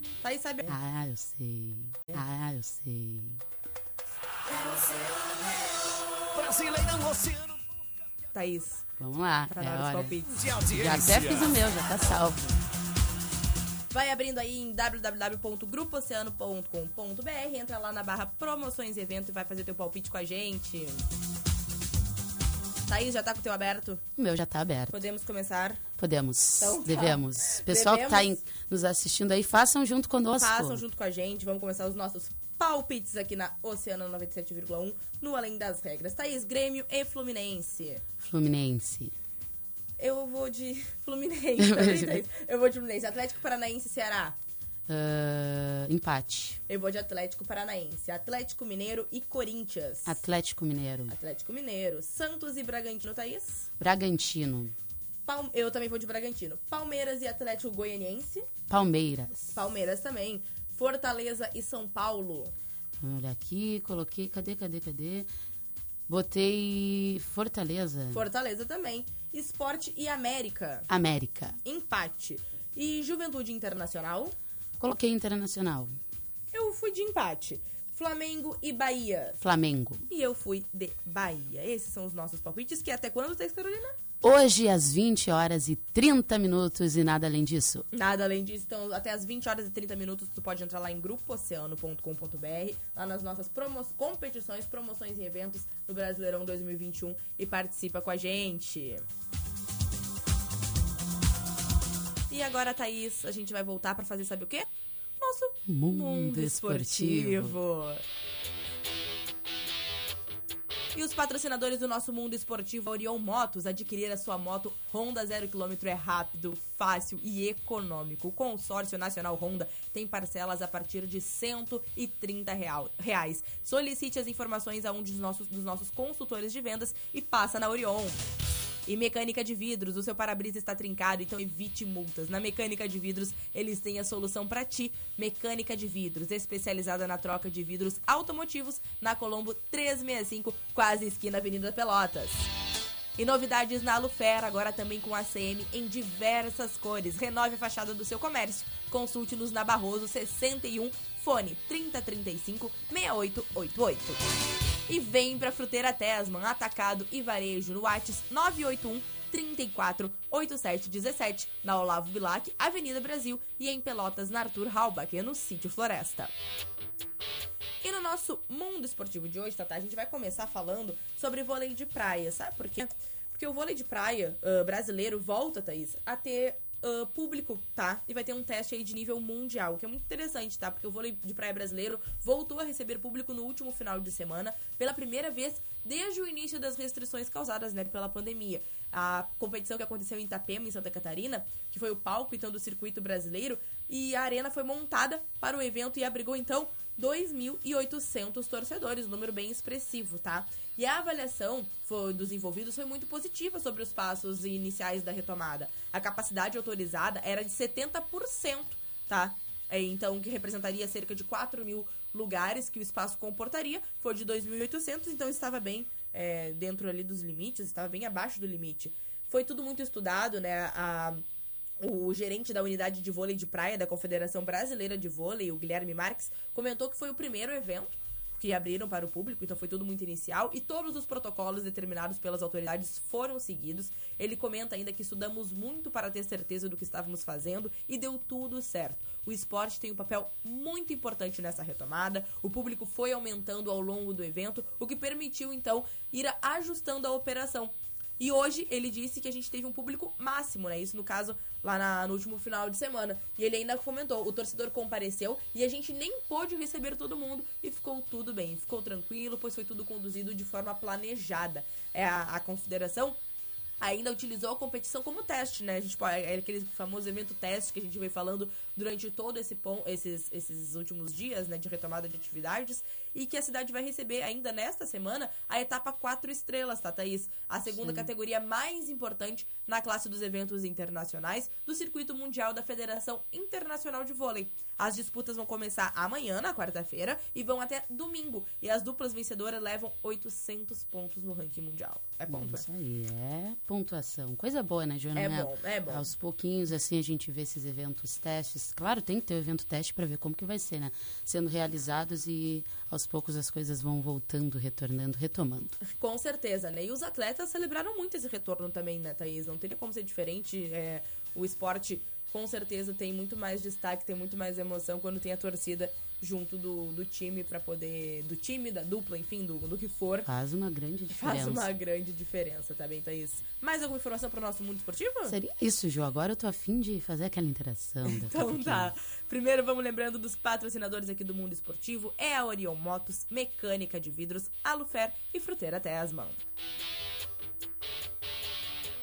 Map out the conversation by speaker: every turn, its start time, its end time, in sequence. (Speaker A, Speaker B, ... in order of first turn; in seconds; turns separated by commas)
Speaker A: 0.2-0.8, Speaker B: 0.7-3.4, Speaker C: 6.3-7.5, Speaker A: 8.3-8.8, Speaker B: 9.0-12.6, Speaker A: 9.5-10.4, Speaker C: 10.4-11.4, Speaker A: 13.9-21.0, Speaker A: 22.9-24.0, Speaker B: 24.2-25.0, Speaker A: 24.9-25.8, Speaker B: 26.0-30.8, Speaker A: 26.6-28.4, Speaker A: 30.3-38.0, Speaker B: 38.2-39.1, Speaker A: 40.0-44.4, Speaker B: 41.6-42.2, Speaker B: 44.9-46.6, Speaker A: 46.7-50.2, Speaker B: 50.0-51.1, Speaker A: 51.1-53.7, Speaker B: 53.8-54.7, Speaker A: 55.2-58.5, Speaker B: 58.7-59.5, Speaker A: 59.5-62.5, Speaker B: 63.0-65.3, Speaker B: 66.1-68.2, Speaker A: 68.1-70.9, Speaker B: 70.9-71.6, Speaker A: 71.6-74.3, Speaker B: 74.8-76.0, Speaker A: 76.5-79.4, Speaker B: 79.4-80.0, Speaker A: 80.1-84.0, Speaker B: 84.2-87.8, Speaker A: 87.9-99.0, Speaker A: 102.3-104.7, Speaker A: 105.2-108.0, Speaker B: 105.7-107.6, Speaker A: 110.9-128.2, Speaker A: 128.9-142.4, Speaker A: 143.2-154.2, Speaker A: 154.9-166.3, Speaker A: 167.8-221.2, Speaker A: 221.8-263.2, Speaker A: 263.8-292.7, Speaker B: 277.8-278.1, Speaker B: 292.3-305.8, Speaker A: 295.1-296.1, Speaker A: 305.8-320.3, Speaker B: 320.2-321.7, Speaker A: 321.1-325.4, Speaker B: 325.2-328.9, Speaker A: 328.0-336.4